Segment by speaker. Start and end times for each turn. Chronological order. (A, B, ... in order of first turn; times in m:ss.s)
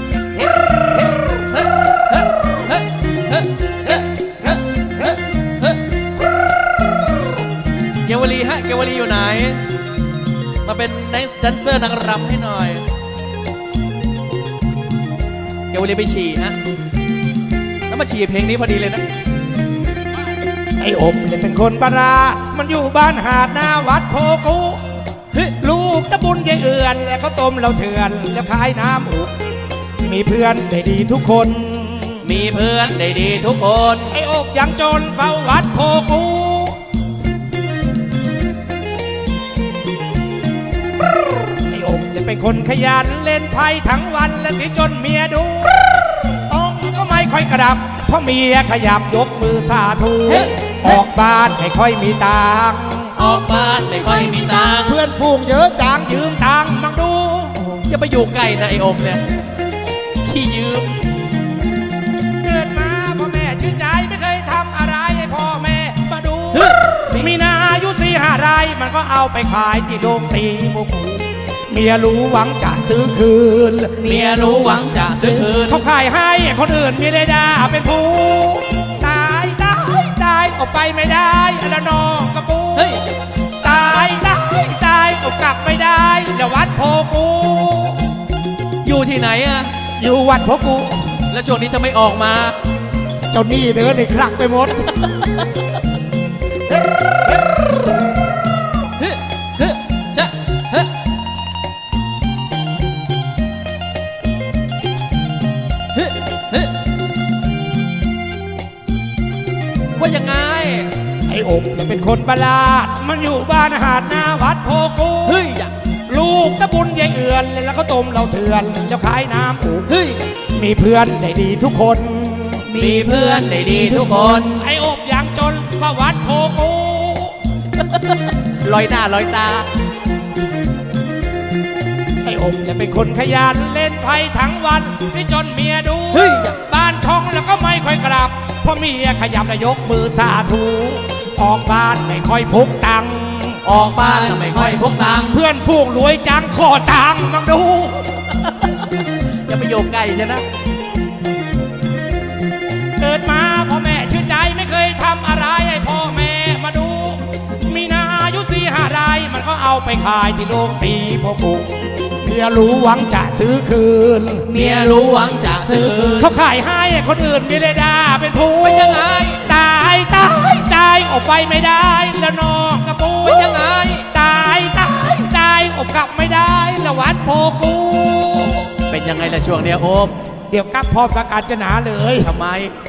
0:01.4-0:05.1 A
0:08.0-0:09.6 A
0:10.6-0:12.8 A
0:15.7-0:16.6 A
0:17.9-0:19.0 A
0:20.8-0:24.8 B
0:25.6-0:29.4 B
0:30.0-0:32.2 B
0:32.2-0:34.2 A
0:34.1-0:36.8 B
0:41.6-0:45.9 B
0:46.5-0:53.2 B
0:53.2-0:55.0 A
0:54.8-0:57.7 B
0:57.6-0:59.2 A
1:00.2-1:01.0 A
1:02.4-1:14.1 B
1:14.0-1:15.8 A
1:15.7-1:23.0 B
1:22.8-1:23.0 A
1:23.6-1:28.1 B
1:28.8-1:29.7 A
1:30.0-1:31.2 B
1:31.3-1:32.6 A
1:33.3-1:35.1 B
1:40.0-1:40.9 A
1:46.0-1:46.7 A
1:50.0-1:50.9 A
1:51.3-1:55.5 B
1:55.3-1:55.7 A
1:56.1-1:59.9 B
1:59.9-2:00.2 A
2:00.5-2:02.7 B
2:02.7-2:04.6 A
2:04.5-2:07.4 B
2:07.8-2:09.7 A
2:12.2-2:23.6 B
2:16.2-2:16.5 A
2:23.6-2:25.4 A
2:25.3-2:28.2 B
2:28.5-2:28.7 A
2:29.5-2:30.4 A
2:33.0-2:41.7 B
2:42.2-2:44.5 B
2:44.5-2:46.3 A
2:46.2-2:58.7 B
2:48.6-2:49.5 A
2:53.2-2:54.1 A
2:58.9-3:00.2 A
3:00.5-3:02.3 B
3:02.2-3:02.8 A